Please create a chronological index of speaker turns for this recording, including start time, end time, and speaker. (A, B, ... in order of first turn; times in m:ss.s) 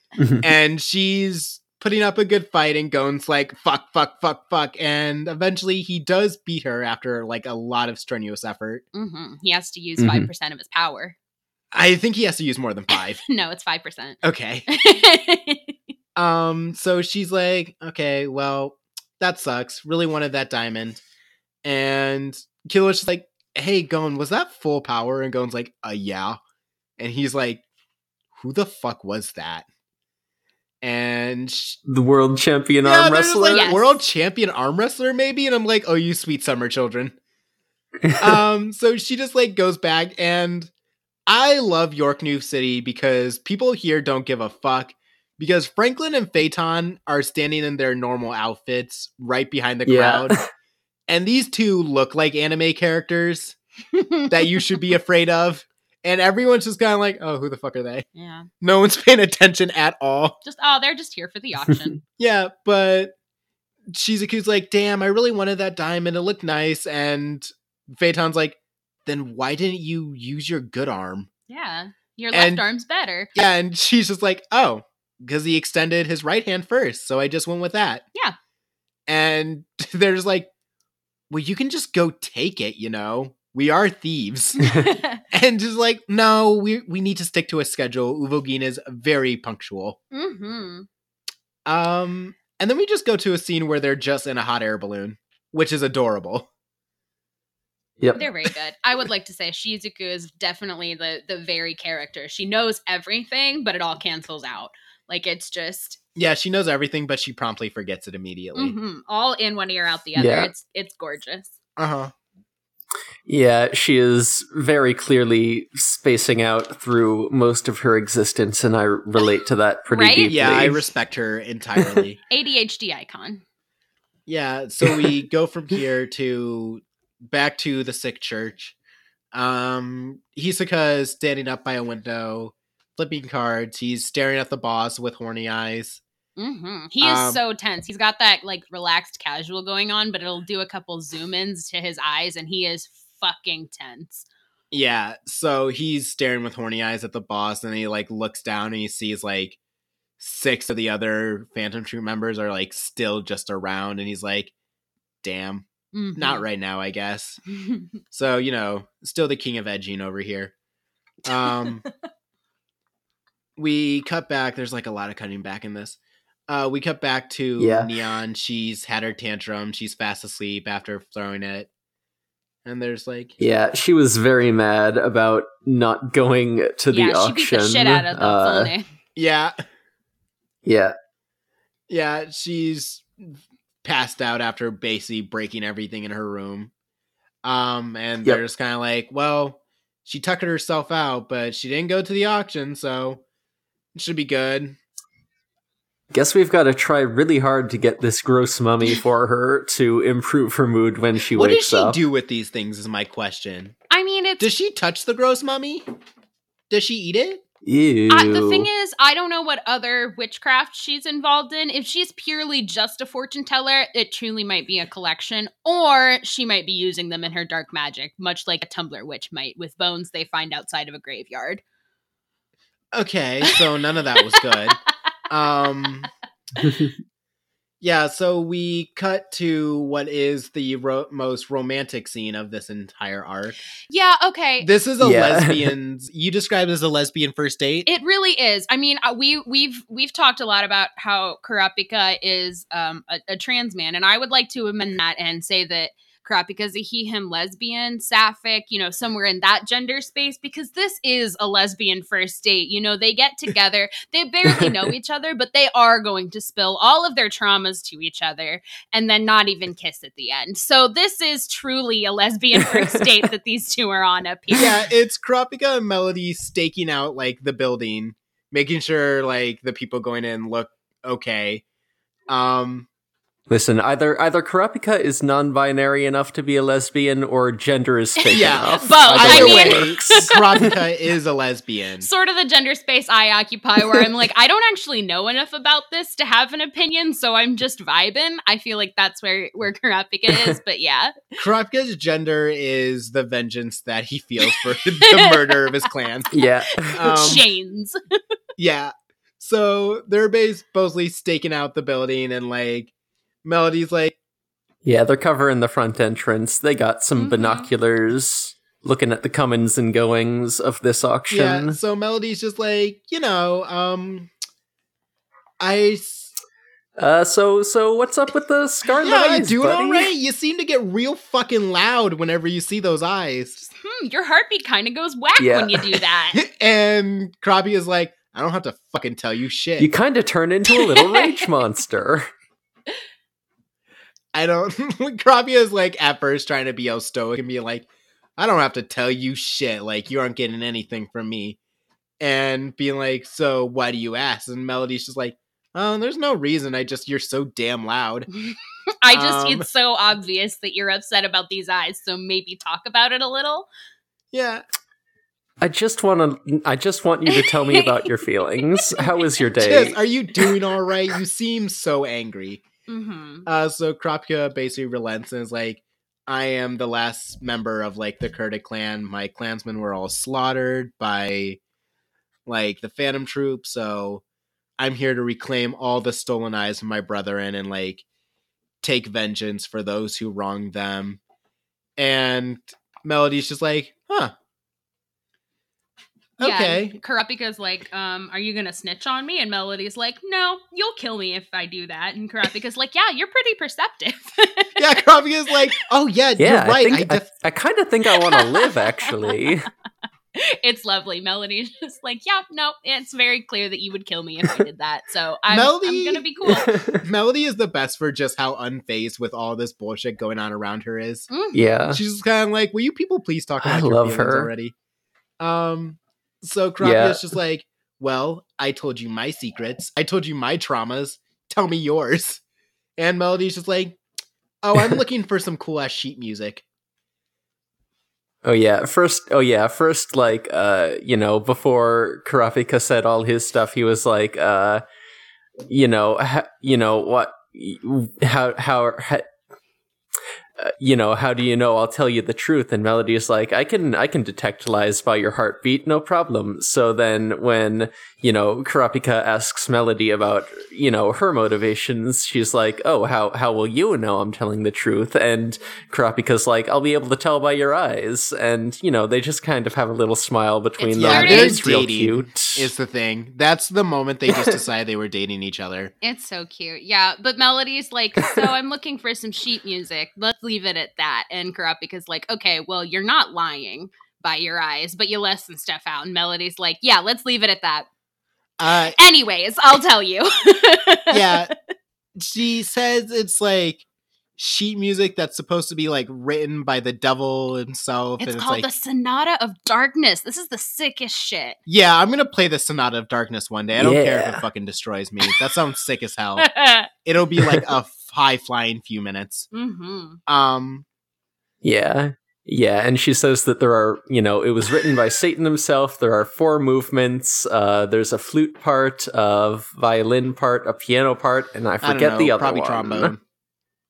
0:00.2-0:00.4 A
0:00.4-0:08.8 B
0:08.9-0:11.1 C
0:10.0-0:10.3 A
0:11.7-0:13.2 B
0:12.9-0:15.7 C
0:14.2-0:14.7 B
0:16.2-0:21.0 B
0:21.6-0:26.4 B
0:27.0-0:27.6 B
0:28.3-0:29.6 B
0:30.8-0:31.8 B
0:31.9-0:33.7 A
0:32.8-0:37.2 B
0:33.5-0:34.0 C
0:38.2-0:40.7 B
0:41.3-0:50.4 B
0:49.9-0:50.4 A
0:51.1-0:53.6 B
0:53.9-0:54.3 C
0:54.3-0:58.0 B
0:58.1-0:58.5 C
0:58.6-1:00.4 B
1:00.4-1:02.0 C
1:02.2-1:03.1 B
1:03.9-1:11.3 B
1:11.5-1:13.3 C
1:12.3-1:12.6 B
1:13.3-1:18.0 B
1:19.1-1:20.5 B
1:21.3-1:24.6 B
1:24.6-1:25.2 C
1:25.3-1:30.0 B
1:30.1-1:30.9 C
1:31.6-1:36.5 B
1:38.0-1:38.5 A
1:38.1-1:46.0 C
1:46.2-1:48.7 B
1:48.5-1:51.6 C
1:50.2-1:50.5 A
1:51.8-1:52.1 B
1:53.3-2:00.8 A
1:59.9-2:00.3 C
2:00.3-2:02.2 B
2:01.8-2:02.0 A
2:02.3-2:03.4 C
2:04.3-2:08.8 B
2:09.3-2:16.0 B
2:16.4-2:24.2 C
2:17.0-2:17.4 B
2:24.7-2:29.6 B
2:30.2-2:34.5 B
2:35.2-2:37.4 B
2:35.9-2:36.4 C
2:37.6-2:37.8 C
2:38.1-2:40.5 B
2:41.2-2:41.8 B
2:43.6-2:46.0 B
2:46.5-2:51.7 B
2:47.6-2:47.9 A
2:52.6-2:53.4 B
2:53.4-2:58.7 A
2:56.9-2:58.8 C
2:59.2-2:59.5 B
3:00.6-3:00.9 A
3:01.9-3:06.7 B
3:07.4-3:13.2 B
3:13.9-3:14.8 B
3:16.1-3:22.0 A
3:21.3-3:23.7 B
3:23.9-3:24.5 C
3:24.4-3:25.8 B
3:26.7-3:27.4 B
3:27.6-3:28.7 A
3:28.1-3:41.6 C
3:42.9-3:44.8 B
3:44.2-3:44.4 C
3:45.3-3:46.1 B
3:47.8-3:53.6 B
3:53.9-3:54.7 C
3:54.6-3:57.9 B
3:55.0-3:55.7 A
3:57.8-4:24.8 C
4:22.7-4:23.0 A
4:24.5-4:31.6 B
4:32.3-4:32.9 B
4:33.5-4:40.3 A
4:38.2-4:40.7 C
4:38.3-4:42.1 B
4:42.0-4:51.3 C
4:51.4-4:56.3 B
4:54.5-4:58.0 C
4:56.3-4:57.3 A
4:56.9-4:57.4 B
4:58.6-5:02.9 B
5:03.4-5:04.2 B
5:04.8-5:11.8 A
5:07.2-5:07.7 C
5:11.3-5:14.3 B
5:15.6-5:16.3 B
5:17.0-5:20.1 A
5:19.0-5:23.6 B
5:23.7-5:26.4 C
5:25.4-5:26.0 A
5:26.3-5:29.9 B
5:29.8-5:32.3 A
5:30.7-5:31.5 C
5:34.3-5:41.6 B
5:42.2-5:48.3 B
5:48.4-5:53.7 C
5:49.1-5:49.6 B
5:54.3-5:54.6 B
5:55.6-6:00.0 A
5:57.3-5:59.3 C
5:59.6-6:02.6 B
6:02.9-6:03.5 C
6:03.4-6:11.6 B
6:12.4-6:14.2 B
6:14.8-6:18.0 B
6:18.8-6:21.2 B
6:22.0-6:24.3 B
6:26.4-6:27.0 B
6:26.4-6:35.0 C
6:34.8-6:37.2 B
6:36.4-6:39.7 A
6:38.1-6:39.4 C
6:40.4-6:46.7 C
6:45.5-6:46.2 B
6:46.5-6:47.0 A
6:47.0-6:51.3 B
6:51.3-6:51.8 C
6:51.5-6:52.0 A
6:51.9-6:54.7 B
6:53.6-6:54.5 A
6:55.4-7:02.4 B
6:56.8-6:57.2 A
7:03.0-7:04.0 B
7:04.6-7:06.6 B
7:08.4-7:14.8 A
7:15.7-7:19.3 A
7:20.6-7:42.7 A
7:40.8-7:41.7 C
7:41.0-7:45.9 B
7:46.0-7:57.9 C
7:58.6-7:59.0 B
7:58.9-8:01.5 C
8:01.1-8:01.5 B
8:02.2-8:03.8 B
8:04.4-8:08.6 B
8:08.2-8:11.6 C
8:11.6-8:16.5 B
8:13.8-8:14.4 A
8:16.4-8:16.9 C
8:17.0-8:19.5 B
8:19.5-8:20.2 C
8:20.3-8:20.8 B
8:21.6-8:33.1 A
8:31.8-8:33.2 B